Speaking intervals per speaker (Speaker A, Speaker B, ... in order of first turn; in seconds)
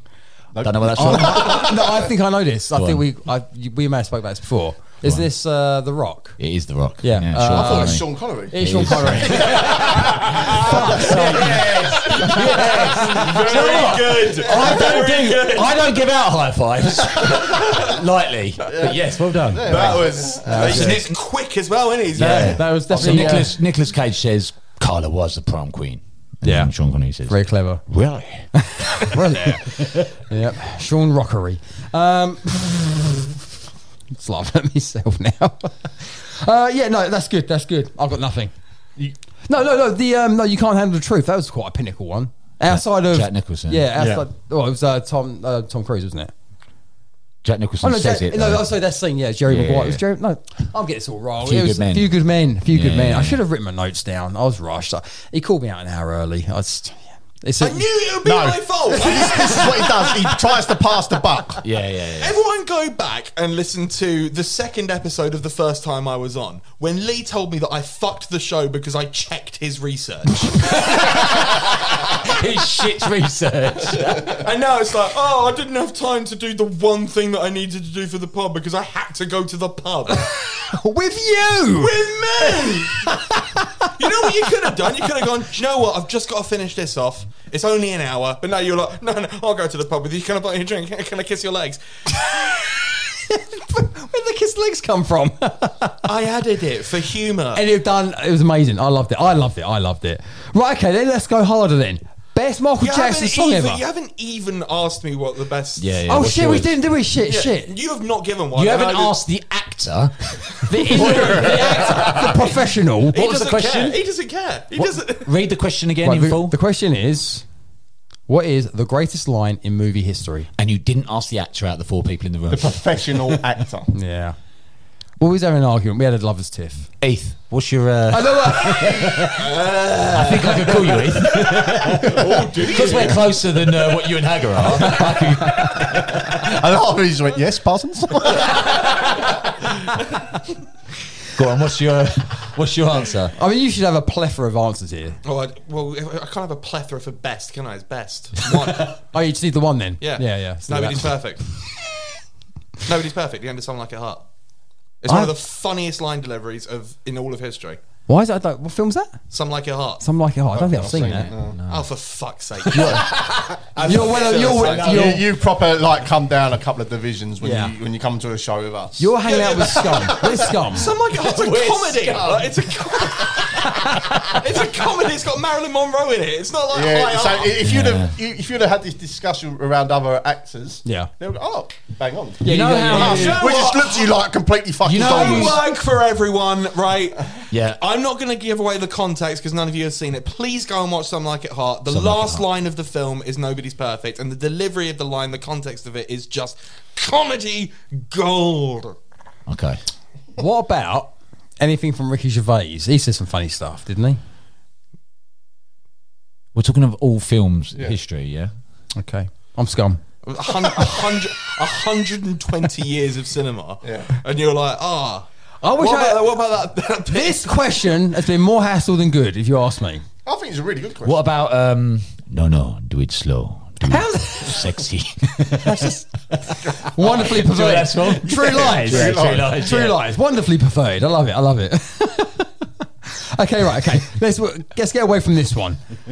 Speaker A: 0.5-1.9, 7.5-10.5, 18.7-20.9, 44.0-44.2, 58.2-61.6, 122.5-123.9, 136.4-138.7, 160.5-161.6, 164.6-169.4, 176.7-185.6, 213.8-214.1, 220.2-221.2, 228.6-229.7
Speaker B: 0.6-1.7, 2.7-3.0, 6.4-21.1, 22.1-27.4, 27.9-28.5, 42.7-43.9, 47.4-48.8, 49.5-50.0, 51.4-52.1, 52.7-53.4, 61.6-62.4, 70.6-74.4, 105.8-106.8, 108.5-112.5, 113.2-114.0, 114.8-116.5, 120.6-122.8, 127.0-129.4, 130.1-136.3, 141.3-143.3, 160.9-161.9, 162.8-163.9, 171.2-174.4, 177.6-178.1, 182.5-183.4, 184.8-185.6, 187.5-187.8, 191.9-192.4, 199.5-199.8, 206.5-208.5, 221.0-225.9, 226.5-230.0
Speaker C: 0.9-6.4, 7.0-13.1, 14.5-15.3, 20.5-21.0, 22.2-23.6, 26.4-26.7, 27.3-27.8, 28.5-33.2, 34.1-38.5, 39.5-46.3, 47.8-57.8, 80.5-81.9, 92.2-96.1, 97.5-103.8, 106.1-107.7, 110.7-113.2, 116.0-117.4, 118.3-120.5, 123.9-124.3, 125.2-126.9, 128.1-129.3, 143.4-145.2, 149.0-151.1, 155.1-155.3, 158.1-159.2, 160.0-161.3, 162.7-163.1, 163.8-165.2, 167.4-167.7, 169.0-170.9, 182.4-183.4, 200.4-204.2, 208.9-210.0, 215.6-216.3, 217.1-220.0, 223.9-224.6, 225.6-226.1, 226.8-232.5, 233.2-235.8
Speaker D: 13.1-15.8, 19.6-23.4, 57.6-60.3, 62.2-70.7, 74.2-80.3, 81.8-83.1, 83.9-91.8, 96.0-97.6, 102.8-105.9, 107.3-109.2, 113.1-115.3, 129.4-131.0, 132.0-133.2, 145.2-149.0, 150.0-151.4, 152.8-154.2, 155.0-157.8, 159.3-160.0, 161.7-163.2, 163.7-165.2, 169.3-170.2, 170.7-177.5, 182.9-184.1, 184.9-198.9, 210.2-217.8